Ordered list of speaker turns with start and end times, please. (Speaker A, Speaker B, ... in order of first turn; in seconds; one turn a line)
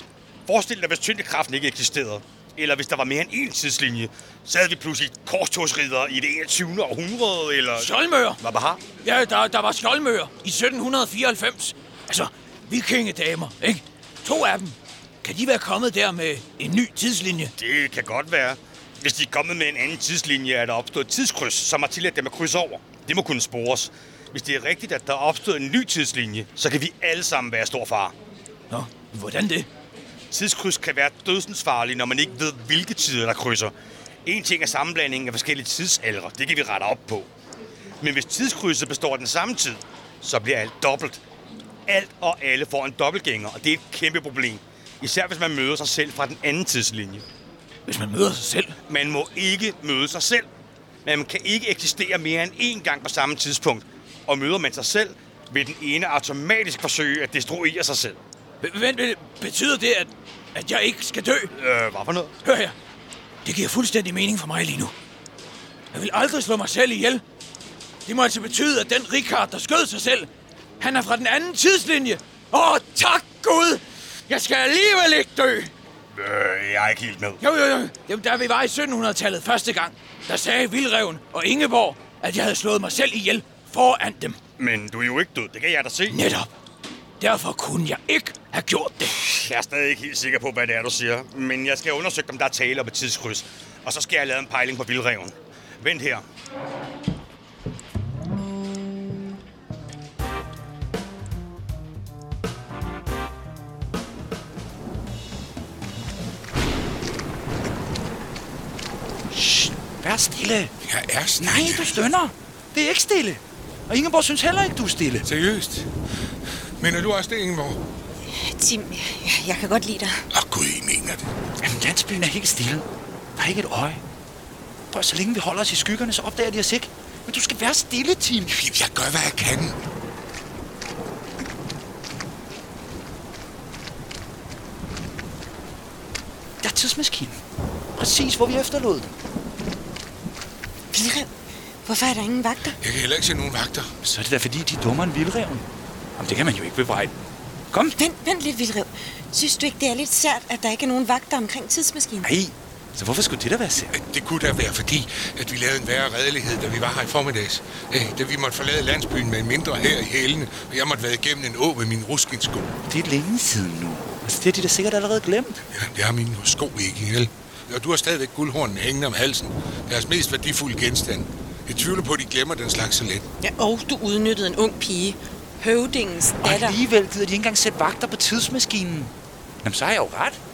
Speaker A: 0.5-8.8
Speaker B: 7.8-8.4
Speaker B: 9.0-17.5
Speaker A: 17.6-28.1
Speaker B: 28.7-29.7
Speaker A: 30.3-33.7
Speaker A: 34.2-37.3
Speaker A: 38.0-41.2
Speaker A: 41.9-47.2
Speaker B: 47.9-48.7
Speaker A: 48.9-50.5
Speaker A: 51.0-58.2
Speaker B: 58.6-61.5
Speaker A: 61.5-62.3
Speaker B: 62.4-62.7
Speaker B: 63.4-64.9
Speaker B: 65.9-67.2
Speaker B: 68.0-70.3
Speaker B: 70.8-75.7
Speaker A: 76.1-77.4
Speaker B: 77.4-84.4
Speaker A: 84.6-86.2
Speaker B: 86.1-86.5
Speaker B: 87.2-89.2
Speaker A: 89.2-96.2
Speaker C: 109.3-110.7
Speaker D: 110.8-112.1
Speaker C: 111.4-115.2
Speaker D: 115.2-115.9
Speaker D: 116.8-117.8
Speaker E: 118.3-120.2
Speaker D: 120.3-121.2
Speaker C: 121.6-124.0
Speaker C: 124.9-128.5
Speaker D: 128.5-129.8
Speaker C: 136.6-137.4
Speaker C: 137.9-139.1
Speaker E: 140.9-141.3
Speaker E: 141.8-142.8
Speaker D: 142.8-143.9
Speaker C: 144.0-147.1
Speaker C: 147.7-148.0
Speaker E: 148.0-152.3
Speaker C: 152.2-153.9
Speaker D: 153.9-162.7
Speaker C: 162.9-165.6
Speaker D: 165.7-173.2
Speaker E: 173.4-176.8
Speaker C: 176.4-180.4